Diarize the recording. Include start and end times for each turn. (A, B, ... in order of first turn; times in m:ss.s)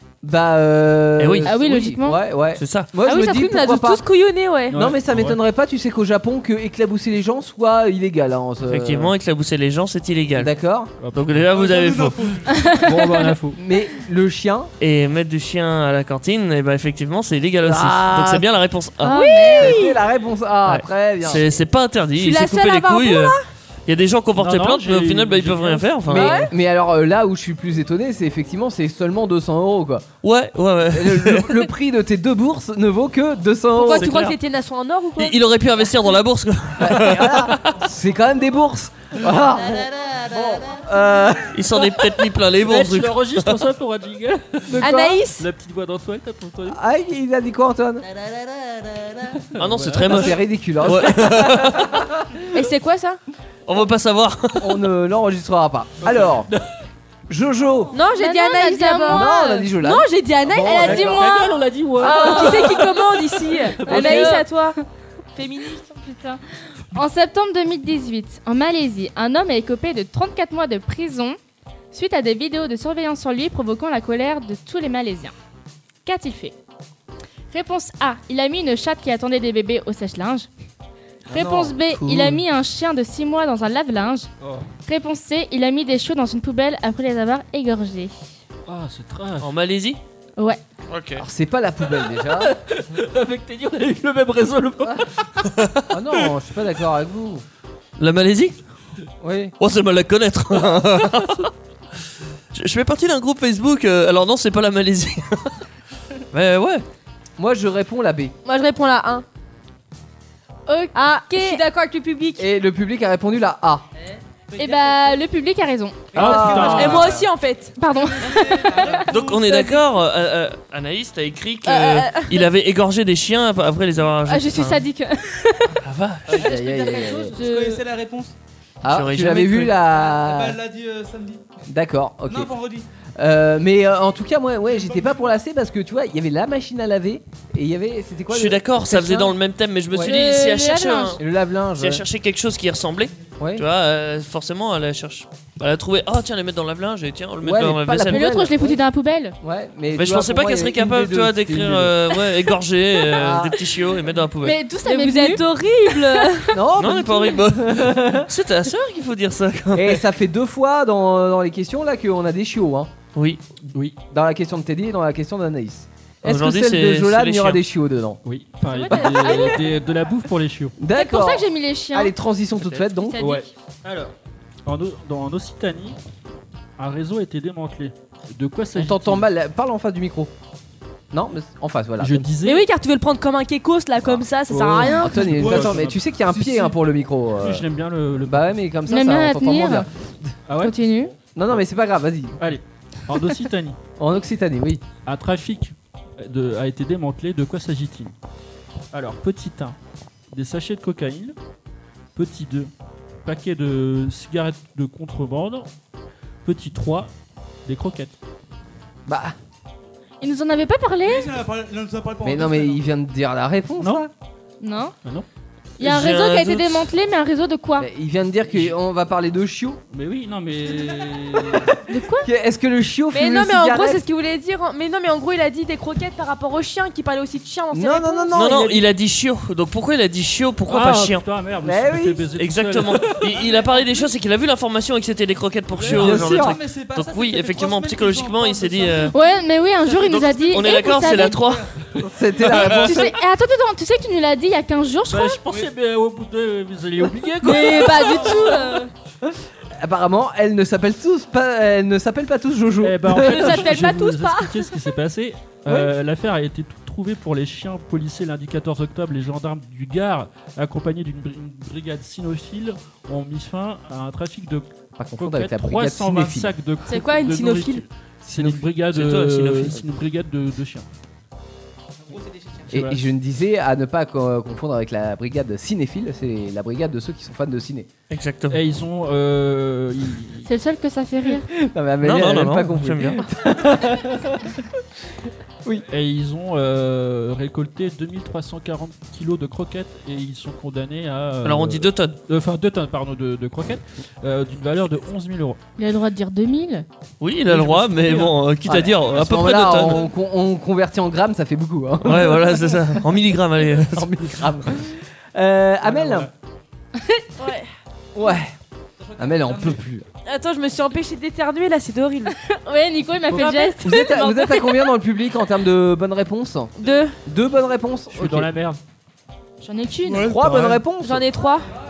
0:00.2-0:04.0 A
0:01.2-0:01.5 B
0:01.4-0:02.2 C
0:02.6-0:02.9 B
0:03.0-0:04.8 D
0:04.7-0:05.4 E
0:04.7-0:09.1 A
0:08.7-0:10.5 B
0:10.4-0:10.9 A
0:11.0-0:11.5 E
0:11.1-0:12.3 B
0:11.5-0:12.9 F
0:12.5-0:12.8 C
0:12.7-0:13.6 E
0:13.5-0:14.7 A
0:14.8-0:19.8 B
0:17.6-0:18.4 A
0:19.0-0:20.0 C
0:19.1-0:19.8 D
0:19.5-0:21.5 A
0:20.7-0:23.4 B
0:22.2-0:23.4 D
0:23.9-0:26.4 B
0:24.4-0:25.9 E
0:26.1-0:30.1 A
0:26.1-0:26.5 D
0:30.2-0:31.7 B
0:30.9-0:34.1 A
0:33.7-0:35.3 D
0:33.9-0:34.4 B
0:35.2-0:37.8 B
0:36.8-0:41.6 A
0:41.5-0:43.5 B
0:42.6-0:44.8 E
0:44.7-0:45.2 A
0:44.8-0:45.4 D
0:45.4-0:46.8 E
0:46.7-0:48.0 A
0:49.5-0:50.1 E
0:49.6-0:52.0 B
0:50.0-0:52.4 A
0:52.5-0:53.2 D
0:53.6-0:54.8 B
0:54.6-0:56.5 A
0:56.1-0:56.6 E
0:57.3-0:57.9 A
0:57.9-1:01.2 D
0:58.0-0:59.7 C
0:59.1-1:01.2 A
1:00.7-1:02.8 C
1:00.7-1:04.4 E
1:02.0-1:04.8 D
1:03.8-1:04.8 C
1:05.3-1:05.8 D
1:05.8-1:06.4 C
1:06.9-1:11.4 C
1:11.9-1:15.3 C
1:16.0-1:16.5 C
1:17.5-1:20.5 C
1:21.3-1:21.8 A
1:21.3-1:24.3 C
1:24.4-1:24.7 E
1:24.8-1:28.1 C
1:28.7-1:29.5 E
1:29.4-1:30.0 B
1:31.2-1:32.5 A
1:32.3-1:35.1 E
1:35.9-1:37.4 A
1:38.0-1:38.6 B
1:39.2-1:39.5 A
1:39.6-1:41.5 B
1:42.5-1:45.6 B
1:46.3-1:46.8 B
1:47.4-1:48.3 A
1:48.4-1:49.2 D
1:50.7-1:51.6 C
1:50.9-1:52.4 D
1:52.4-1:53.8 A
1:54.5-1:55.2 F
1:54.6-1:56.2 C
1:56.1-1:57.2 E
1:56.1-1:57.3 F
1:56.1-1:57.2 A
1:56.7-1:57.8 D
1:57.8-1:59.1 C
1:57.9-1:59.8 F
1:59.1-2:04.8 B
2:01.6-2:02.4 D
2:04.2-2:05.8 C
2:05.8-2:06.5 B
2:06.3-2:08.3 F
2:06.3-2:07.3 A
2:07.4-2:07.8 C
2:08.8-2:10.6 A
2:08.9-2:09.8 B
2:09.8-2:11.4 F
2:11.7-2:12.5 A
2:12.2-2:12.8 F
2:13.2-2:19.4 A
2:14.7-2:15.3 F
2:18.3-2:21.2 B
2:20.0-2:21.2 C
2:21.2-2:22.0 A
2:21.8-2:28.3 B
2:23.4-2:23.6 A
2:27.4-2:28.8 A
2:28.1-2:29.4 C
2:29.4-2:32.0 A
2:30.0-2:34.6 B
2:33.1-2:33.6 A
2:34.4-2:36.3 C
2:34.8-2:36.6 D
2:36.5-2:38.3 A
2:36.8-2:40.0 B
2:39.7-2:42.9 A
2:43.1-2:43.4 B
2:44.1-2:48.2 A
2:46.2-2:47.6 B
2:48.2-2:50.7 E
2:48.7-2:49.6 C
2:48.9-2:49.4 A
2:49.2-2:49.5 D
2:50.8-2:53.2 A
2:50.9-2:52.1 C
2:53.0-2:53.4 D
2:53.2-2:54.1 E
2:54.6-2:56.0 E
2:56.8-2:59.2 E
2:58.7-3:00.3 A
3:01.1-3:02.3 A
3:02.0-3:02.6 E
3:02.4-3:05.3 D
3:04.5-3:06.7 E
3:04.8-3:07.6 A
3:05.3-3:06.0 F
3:07.4-3:08.6 E
3:08.3-3:10.3 A
3:08.9-3:09.9 C
3:10.5-3:10.8 E
3:10.6-3:11.1 C
3:11.3-3:12.4 A
3:12.4-3:13.8 E
3:14.0-3:14.8 A
3:15.0-3:18.1 E
3:18.9-3:19.8 E
3:20.3-3:21.4 E
3:22.1-3:22.7 E
3:23.2-3:25.7 E
3:26.4-3:27.1 E
3:27.6-3:28.1 E
3:29.1-3:29.3 A
3:30.2-3:31.3 C
3:31.0-3:32.8 F
3:32.2-3:34.1 A
3:34.6-3:34.9 C
3:35.8-3:37.9 C
3:35.8-3:36.9 B
3:37.8-3:39.8 A
3:39.9-3:41.7 E
3:41.9-3:42.3 C
3:42.2-3:44.0 A
3:43.1-3:48.3 D
3:47.7-3:48.8 A
3:48.3-3:51.2 B
3:50.7-3:53.2 E
3:51.6-3:52.2 A
3:52.4-3:59.1 B
3:53.2-3:54.1 F
3:55.9-3:56.6 A
3:55.9-3:59.3 F
3:59.1-4:01.4 C
3:59.9-4:01.7 F
4:00.0-4:01.7 B
4:02.0-4:03.1 A
4:02.5-4:02.9 B
4:02.6-4:05.4 C
4:05.1-4:08.5 E
4:07.4-4:08.9 C
4:07.5-4:08.5 D
4:08.0-4:08.6 F
4:09.2-4:13.7 A
4:12.8-4:30.9 E
4:13.2-4:14.6 D
4:15.6-4:15.9 A
4:25.0-4:26.5 A
4:26.9-4:27.8 D
4:28.3-4:28.6 A
4:28.9-4:29.8 B
4:32.1-4:32.7 F
4:32.7-4:33.0 E
4:32.7-4:37.9 A
4:38.1-4:38.6 B
4:38.5-4:40.5 E
4:40.4-4:41.5 C
4:41.5-4:44.6 A
4:42.0-4:43.2 B
4:45.9-4:55.6 E
4:51.4-4:52.2 B
4:55.8-4:56.8 C
4:57.2-5:00.1 B
4:57.5-4:58.3 E
4:58.6-5:02.8 A
5:02.0-5:04.3 B
5:03.8-5:06.3 A
5:05.9-5:06.3 E
5:07.0-5:07.2 C
5:07.4-5:07.7 D
5:08.1-5:08.5 A
5:09.0-5:09.8 F
5:09.2-5:10.0 A
5:10.2-5:12.3 D
5:12.3-5:14.8 C
5:13.3-5:13.9 D
5:13.8-5:16.7 A
5:16.8-5:17.2 D
5:17.2-5:18.5 A
5:18.1-5:18.8 E
5:19.6-5:20.3 C
5:20.0-5:20.8 F
5:20.2-5:21.2 A
5:21.0-5:21.7 D